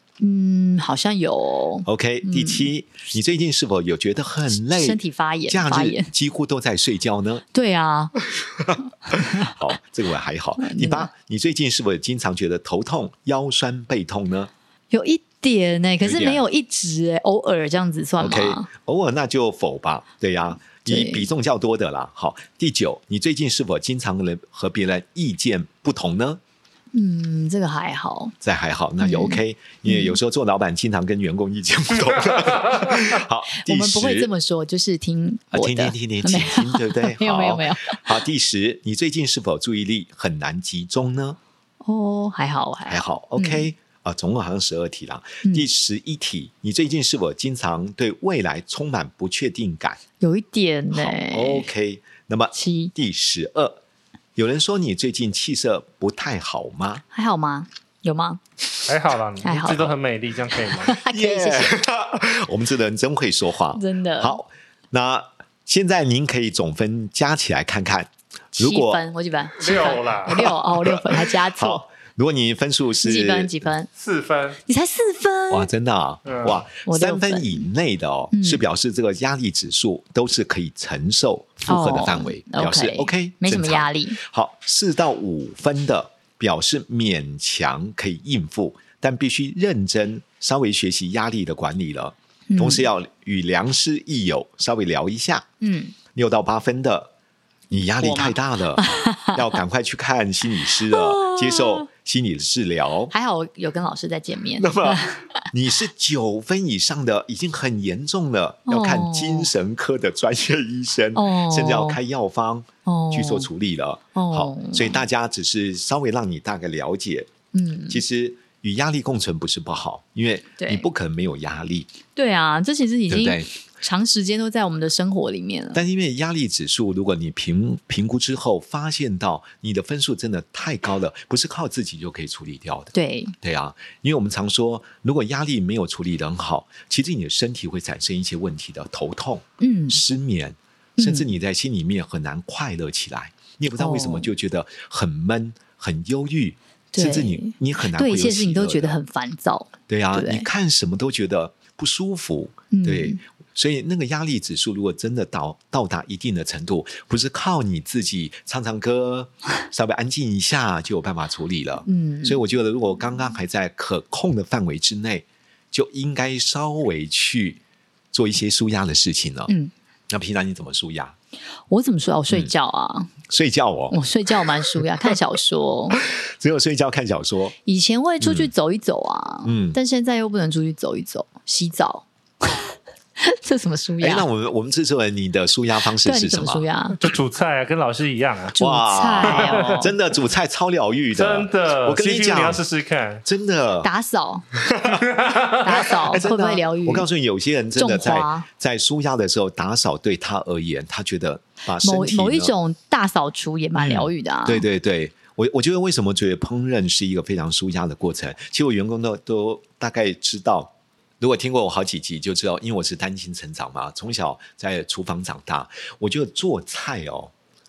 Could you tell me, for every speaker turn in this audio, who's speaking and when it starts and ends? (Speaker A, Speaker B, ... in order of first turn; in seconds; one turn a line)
Speaker A: 0.2-2.7
Speaker B: 1.9-7.4
Speaker A: 4.7-6.1
Speaker A: 7.5-8.1
Speaker B: 8.4-14.5
Speaker A: 9.1-9.5
Speaker A: 10.6-11.1
Speaker A: 14.9-18.7
Speaker B: 16.0-16.4
Speaker B: 18.2-26.4
Speaker A: 20.8-21.2
Speaker A: 26.9-28.3
Speaker B: 28.4-34.3
Speaker A: 29.0-30.2
Speaker A: 33.5-38.1
Speaker B: 35.5-41.4
Speaker A: 41.8-43.7
Speaker B: 42.9-50.0
Speaker A: 50.2-51.7
Speaker B: 50.9-53.8
Speaker A: 52.5-52.9
Speaker B: 54.4-57.0
Speaker A: 57.1-58.4
Speaker C: 58.9-61.0
Speaker A: 59.4-59.9
Speaker A: 60.9-61.8
Speaker B: 61.0-69.0
Speaker A: 63.7-64.4
Speaker A: 68.6-71.8
Speaker C: 69.6-70.5
Speaker B: 70.3-73.6
Speaker A: 73.0-73.9
Speaker C: 74.0-74.6
Speaker A: 74.7-75.7
Speaker B: 75.5-95.5
Speaker C: 76.2-76.6
Speaker A: 76.8-77.7
Speaker A: 78.3-78.6
Speaker A: 81.7-84.2
Speaker A: 92.5-92.8
Speaker A: 95.6-95.9
Speaker B: 96.1-97.1
Speaker B: 97.7-103.1
Speaker A: 98.0-99.4
Speaker A: 100.9-101.9
Speaker A: 103.1-105.5
Speaker B: 104.6-117.3
Speaker A: 108.7-109.5
Speaker A: 111.1-112.0
Speaker A: 112.8-113.5
Speaker A: 114.1-115.0
Speaker A: 117.5-118.0
Speaker B: 117.9-121.9
Speaker A: 120.6-120.9
Speaker A: 122.1-125.8
Speaker B: 123.1-123.5
Speaker B: 125.7-149.0
Speaker A: 132.9-133.3
Speaker A: 139.6-140.0
Speaker A: 141.0-141.2
Speaker A: 143.8-144.3
Speaker A: 146.9-150.5
Speaker B: 149.9-167.6
Speaker A: 152.7-153.2
Speaker A: 161.8-162.4
Speaker B: 168.1-169.5
Speaker B: 170.1-171.1
Speaker A: 171.7-173.1
Speaker B: 173.3-173.9
Speaker A: 173.9-176.0
Speaker B: 176.0-177.6
Speaker A: 177.7-184.2
Speaker B: 178.2-178.5
Speaker B: 179.4-179.8
Speaker B: 184.0-186.7
Speaker A: 186.0-187.0
Speaker C: 187.0-188.5
Speaker A: 188.5-189.9
Speaker B: 188.6-192.6
Speaker C: 189.3-189.7
Speaker C: 191.1-193.2
Speaker B: 193.2-193.9
Speaker A: 193.8-194.4
Speaker B: 194.6-202.5
Speaker C: 195.2-195.5
Speaker A: 195.6-197.1
Speaker A: 197.7-198.4
Speaker A: 201.8-204.7
Speaker B: 203.8-217.3